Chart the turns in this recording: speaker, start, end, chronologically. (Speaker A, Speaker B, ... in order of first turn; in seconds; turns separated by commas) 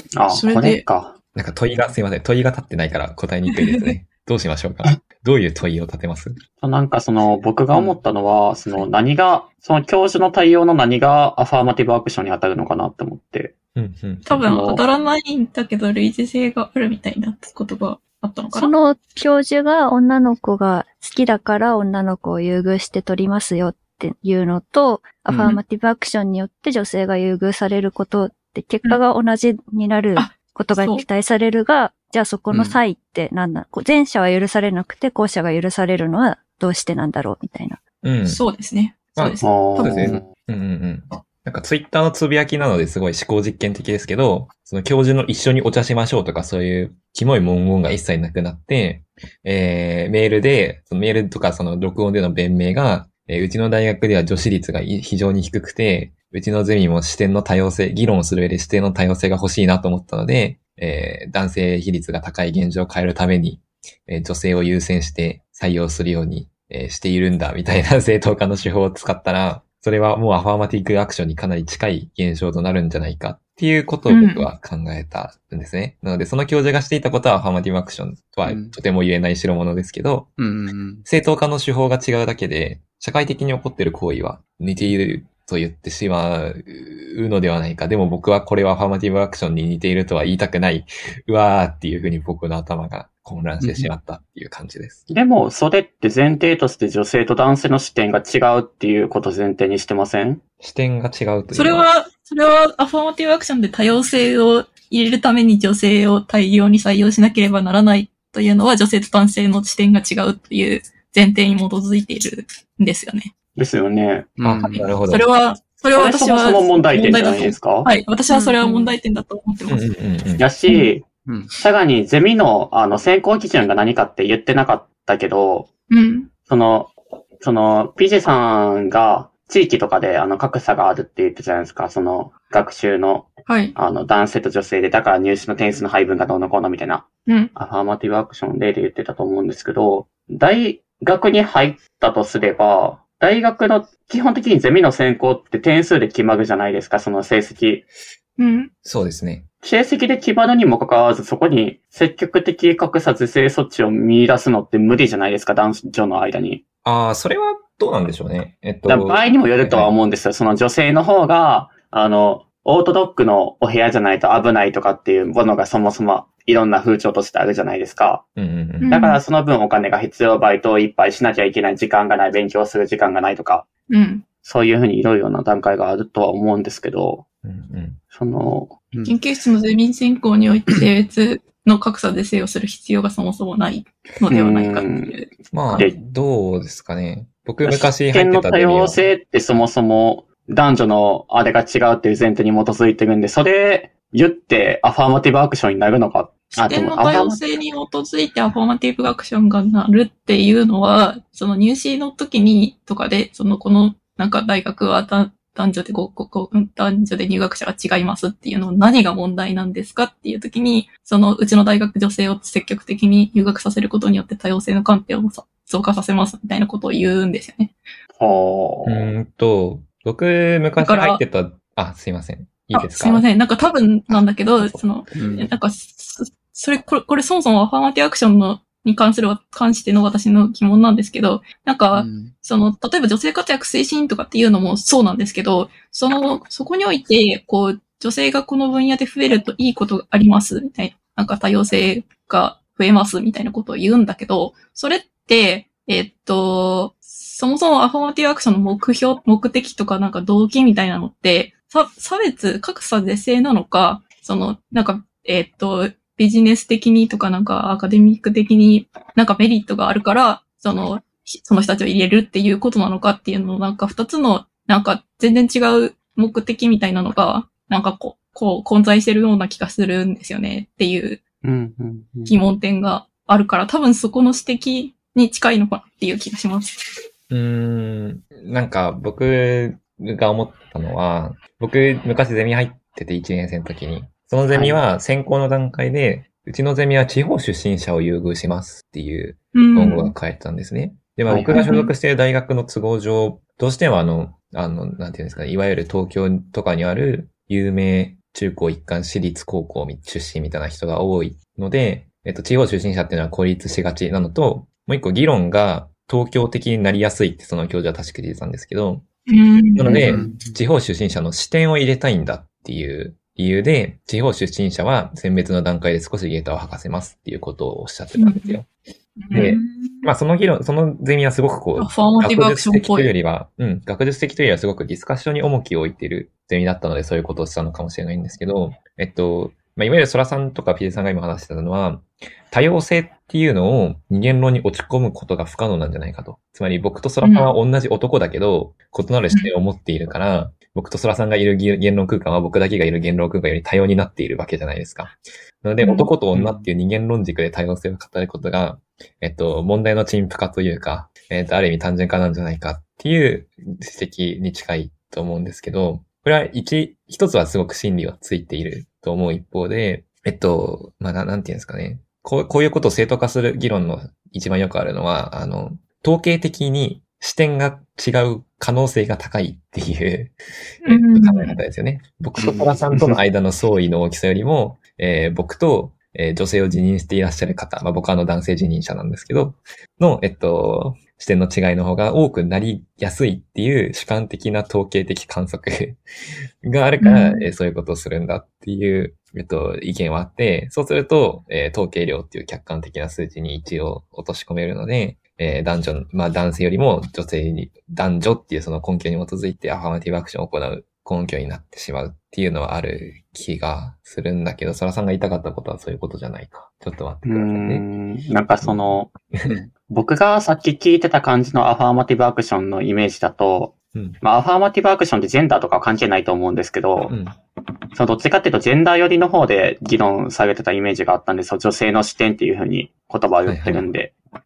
Speaker A: 0.1-1.1, Speaker B: 0.3-0.8, Speaker C: 1.4-6.4, Speaker B: 3.5-3.9, Speaker A: 6.6-13.6, Speaker C: 13.8-14.4, Speaker A: 14.3-14.8, Speaker B: 14.3-18.7, Speaker D: 18.5-37.8, Speaker E: 25.3-25.6, Speaker B: 30.2-31.1, Speaker C: 38.0-38.4, Speaker B: 38.3-40.1, Speaker C: 39.2-80.3, Speaker A: 39.4-40.3, Speaker B: 74.1-74.5, Speaker E: 78.5-78.8, Speaker E: 80.4-81.0, Speaker C: 81.0-95.0, Speaker E: 93.6-93.9, Speaker A: 95.1-100.4, Speaker C: 100.6-101.9, Speaker B: 101.5-113.3, Speaker A: 113.6-114.3, Speaker E: 114.4-114.9, Speaker C: 114.4-115.2, Speaker B: 115.1-119.9, Speaker A: 115.9-117.9, Speaker D: 118.3-119.0, Speaker C: 119.7-120.5, Speaker A: 120.4-125.7, Speaker B: 125.9-126.3, Speaker A: 126.5-147.9, Speaker B: 133.5-133.8, Speaker B: 137.3-137.5, Speaker B: 148.4-148.7, Speaker C: 148.8-149.5, Speaker A: 149.6-156.6, Speaker C: 156.8-159.9, Speaker A: 158.9-168.2, Speaker C: 168.4-168.9, Speaker B: 168.8-169.2, Speaker A: 168.9-173.7, Speaker B: 173.9-174.2, Speaker A: 174.4-177.2, Speaker C: 177.4-178.0, Speaker A: 178.1-178.8, Speaker E: 178.9-179.2, Speaker B: 179.1-185.8, Speaker A: 184.3-185.2, Speaker C: 185.5-189.0, Speaker A: 187.7-197.4, Speaker B: 196.6-217.7, Speaker A: 218.2-219.1, Speaker C: 218.9-223.2, Speaker B: 220.8-221.2, Speaker B: 222.7-271.2, Speaker C: 224.1-224.8, Speaker E: 225.2-225.5, Speaker E: 231.9-232.3, Speaker A: 271.4-272.4, Speaker B: 272.3-276.8, Speaker C: 277.3-309.1, Speaker A: 284.5-284.8, Speaker B: 289.6-290.1, Speaker A: 291.3-291.6, Speaker B: 291.6-291.9, Speaker B: 309.3-310.1, Speaker C: 309.8-318.7, Speaker E: 309.9-310.6, Speaker B: 318.2-318.6, Speaker B: 319.2-319.6, Speaker C: 319.3-386.0, Speaker D: 319.4-320.1, Speaker B: 321.8-323.1, Speaker B: 337.2-337.6, Speaker B: 345.8-346.1, Speaker E: 346.3-346.7, Speaker B: 370.8-371.6, Speaker C: 386.6-407.9, Speaker B: 387.0-387.5, Speaker A: 407.2-409.1, Speaker C: 408.6-409.6, Speaker E: 409.5-409.7, Speaker A: 409.9-417.1, Speaker C: 413.9-414.2, Speaker C: 417.1-417.4, Speaker A: 417.9-424.1, Speaker C: 423.5-423.9